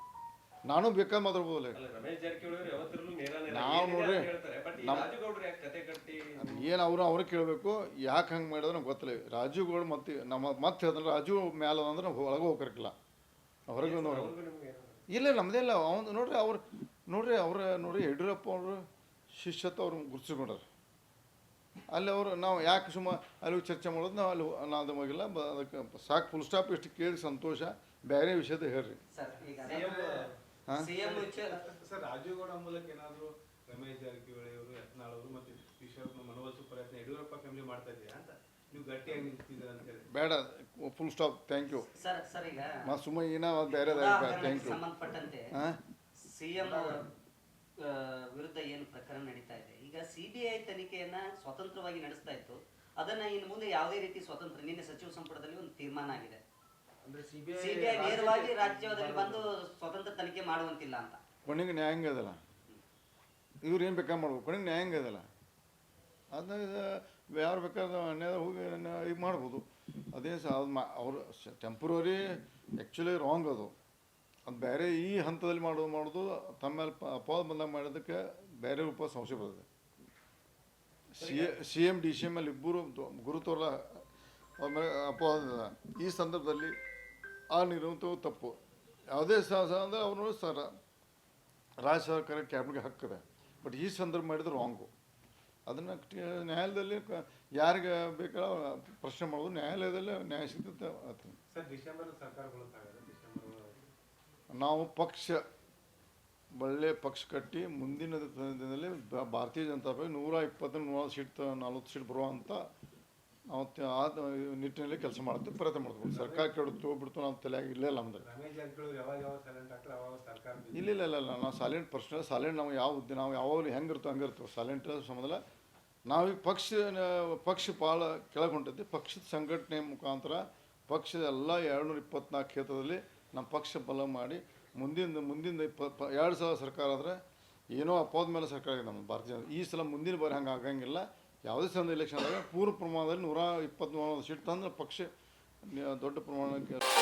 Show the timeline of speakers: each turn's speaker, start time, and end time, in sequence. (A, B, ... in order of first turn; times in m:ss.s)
0:00.7-0:01.8 A
0:01.7-0:06.7 B
0:03.5-0:05.1 A
0:06.4-0:13.0 A
0:13.7-0:14.3 A
0:13.8-0:15.0 B
0:15.1-0:20.6 A
0:21.9-0:29.0 A
0:29.1-0:30.0 C
0:29.4-0:30.3 D
0:29.6-0:30.3 B
0:30.7-0:31.6 C
0:30.9-0:40.1 D
0:40.1-0:41.9 A
0:41.9-0:42.9 C
0:42.8-0:44.8 A
0:43.7-0:45.5 C
0:45.5-0:45.8 A
0:46.2-0:47.0 C
0:46.6-0:47.0 E
0:47.8-0:56.4 C
0:57.0-0:59.5 E
0:57.6-1:01.2 C
1:01.4-1:02.4 A
1:03.6-1:05.3 A
1:06.3-1:13.7 A
1:14.5-1:19.6 A
1:21.1-1:24.0 A
1:21.2-1:21.6 B
1:24.6-1:26.8 A
1:27.5-1:28.6 A
1:29.1-1:30.7 A
1:31.8-1:34.9 A
1:35.7-1:41.4 A
1:41.5-1:43.9 D
1:44.5-1:45.4 A
1:46.5-1:52.7 A
1:53.5-1:58.2 A
1:56.0-1:56.5 D
1:58.2-2:00.8 D
2:00.7-2:05.4 A
2:06.1-2:17.2 A
2:17.7-2:25.1 A
2:25.6-2:26.8 A